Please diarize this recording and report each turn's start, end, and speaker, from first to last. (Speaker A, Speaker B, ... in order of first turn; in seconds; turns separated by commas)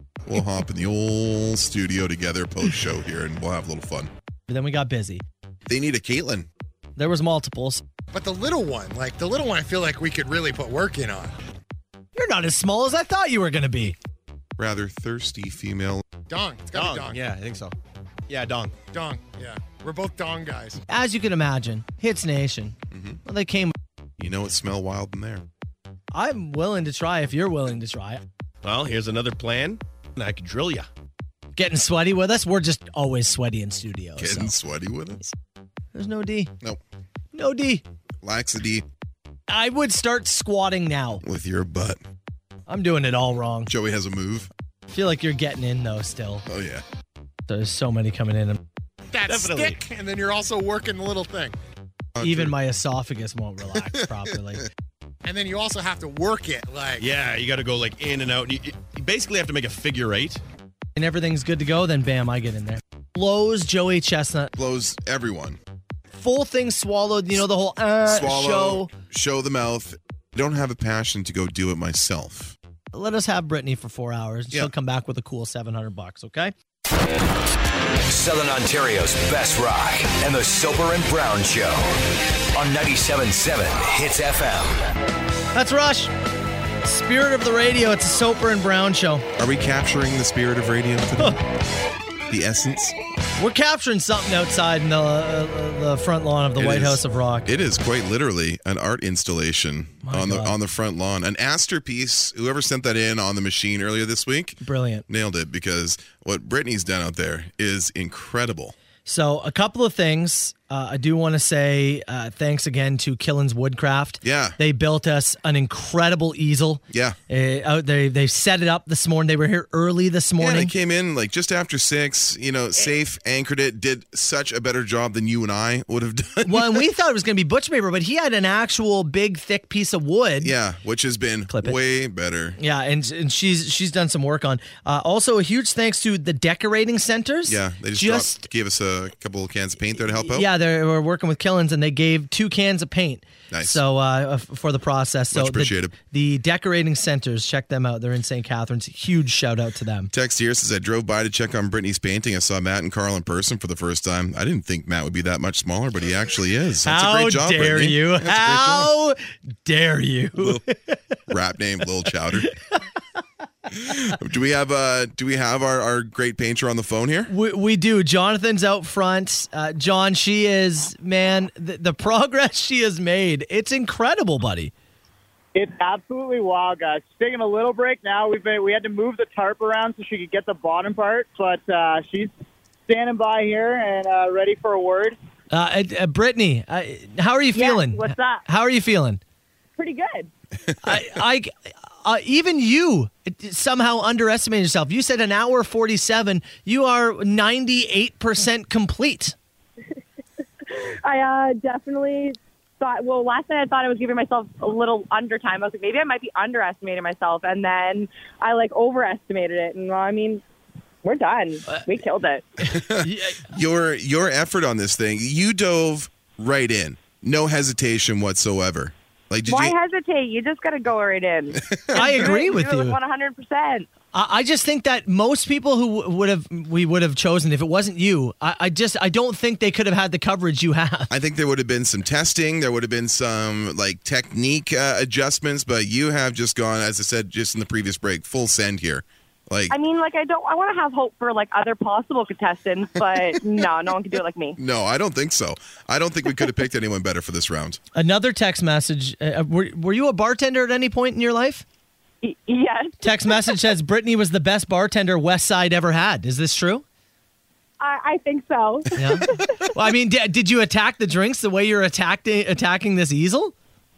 Speaker A: 0.2-4.1, Speaker B: 4.5-5.2, Speaker A: 5.7-6.5, Speaker B: 7.0-7.8, Speaker C: 8.1-11.3, Speaker B: 12.2-13.9, Speaker A: 14.6-16.0, Speaker C: 16.3-17.2, Speaker D: 16.7-17.7, Speaker D: 18.3-18.8, Speaker C: 18.9-20.8, Speaker B: 20.9-23.7, Speaker A: 22.9-23.2, Speaker A: 24.2-25.4, Speaker B: 26.1-28.2, Speaker D: 28.6-30.9, Speaker B: 31.6-34.5, Speaker A: 34.2-35.2, Speaker B: 35.9-36.5, Speaker B: 37.3-37.8, Speaker A: 38.2-38.9, Speaker B: 39.5-41.2, Speaker A: 41.2-42.0, Speaker B: 42.7-43.7, Speaker A: 43.7-44.5, Speaker B: 44.9-46.4, Speaker A: 46.5-46.8, Speaker B: 47.5-48.6, Speaker C: 49.1-51.5, Speaker D: 49.3-49.8, Speaker A: 52.1-52.5, Speaker B: 52.2-54.6, Speaker A: 53.7-54.3, Speaker C: 55.2-57.0, Speaker D: 57.0-60.4, Speaker B: 61.0-64.5, Speaker A: 64.5-65.6, Speaker B: 66.1-68.9, Speaker A: 68.0-72.5, Speaker B: 72.9-76.5, Speaker E: 78.1-84.8, Speaker B: 85.5-86.1, Speaker B: 86.8-89.2, Speaker A: 89.4-91.4, Speaker A: 92.3-93.0, Speaker B: 93.4-97.5, Speaker A: 96.5-108.7, Speaker B: 100.0-100.5, Speaker B: 104.6-105.0, Speaker B: 109.0-120.7, Speaker A: 114.2-114.6, Speaker A: 116.9-117.2, Speaker A: 120.4-126.8, Speaker B: 126.4-130.5, Speaker A: 130.4-132.6, Speaker B: 131.5-131.8, Speaker B: 132.6-138.5, Speaker A: 137.4-140.5, Speaker B: 140.2-150.1, Speaker A: 143.5-143.8, Speaker A: 145.3-145.9, Speaker A: 150.1-158.9, Speaker B: 156.8-161.0, Speaker A: 161.3-162.5, Speaker A: 163.7-167.3, Speaker B: 167.3-174.7, Speaker F: 175.5-182.3, Speaker F: 182.9-185.2, Speaker B: 185.5-189.2, Speaker G: 187.5-188.4, Speaker G: 189.8-190.3, Speaker B: 190.8-191.5, Speaker B: 192.0-199.3, Speaker G: 200.7-210.4, Speaker G: 211.0-212.4, Speaker B: 212.6-213.5, Speaker A: 212.7-219.7, Speaker G: 219.5-223.9, Speaker A: 221.7-222.2, Speaker B: 221.9-223.0, Speaker B: 224.1-231.1, Speaker A: 231.1-239.8, Speaker G: 239.7-244.6, Speaker A: 244.6-247.8, Speaker B: 247.9-251.6, Speaker G: 252.2-253.6, Speaker B: 253.0-256.8, Speaker G: 257.8-259.6, Speaker B: 258.9-263.5